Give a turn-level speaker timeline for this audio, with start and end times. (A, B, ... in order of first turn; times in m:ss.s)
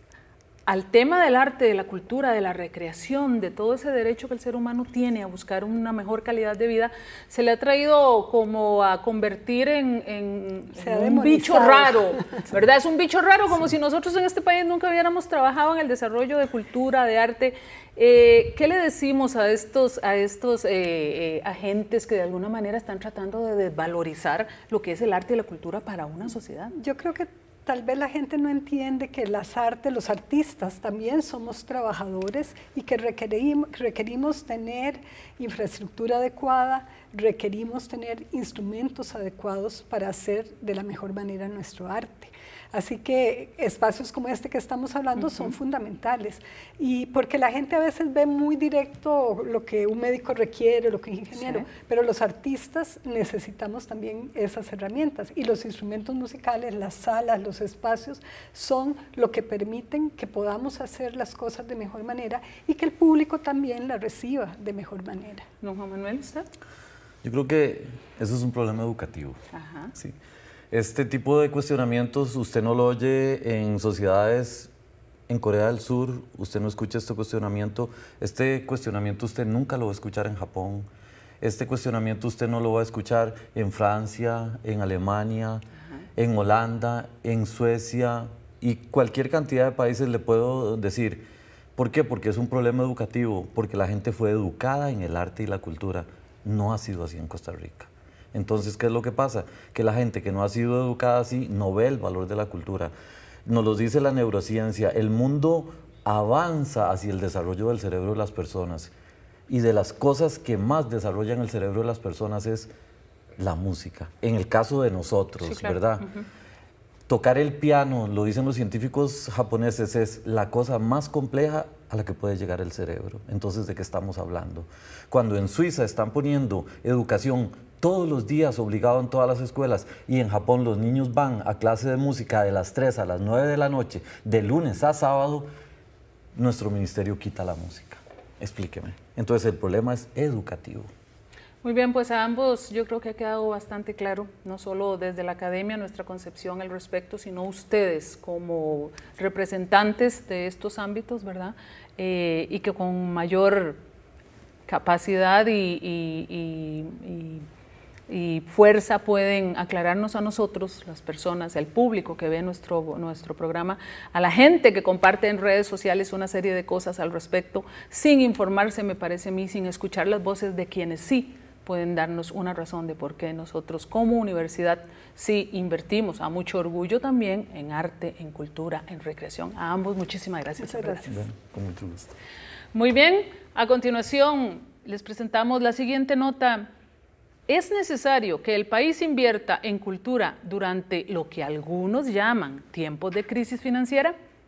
0:00.7-0:26.7 A
0:10.8-0:12.1 B
0:26.8-1:05.4 B
0:45.2-0:45.5 A
0:51.3-0:51.7 A
1:05.6-1:06.5 A
1:07.2-1:09.4 C
1:09.5-1:09.9 A
1:10.7-1:14.7 C
1:15.3-1:20.9 C
1:21.4-1:25.6 C
1:26.2-1:31.2 C
1:31.8-1:42.9 C
1:43.5-1:48.9 C
1:49.5-1:52.7 C
1:53.4-1:56.1 C
1:55.4-1:56.2 A
1:57.1-2:15.5 C
2:16.4-2:20.9 C
2:21.6-2:33.8 A
2:34.7-2:37.4 A
2:38.1-3:01.2 A
3:00.8-3:02.1 C
3:02.7-3:06.7 A
3:07.5-3:14.1 A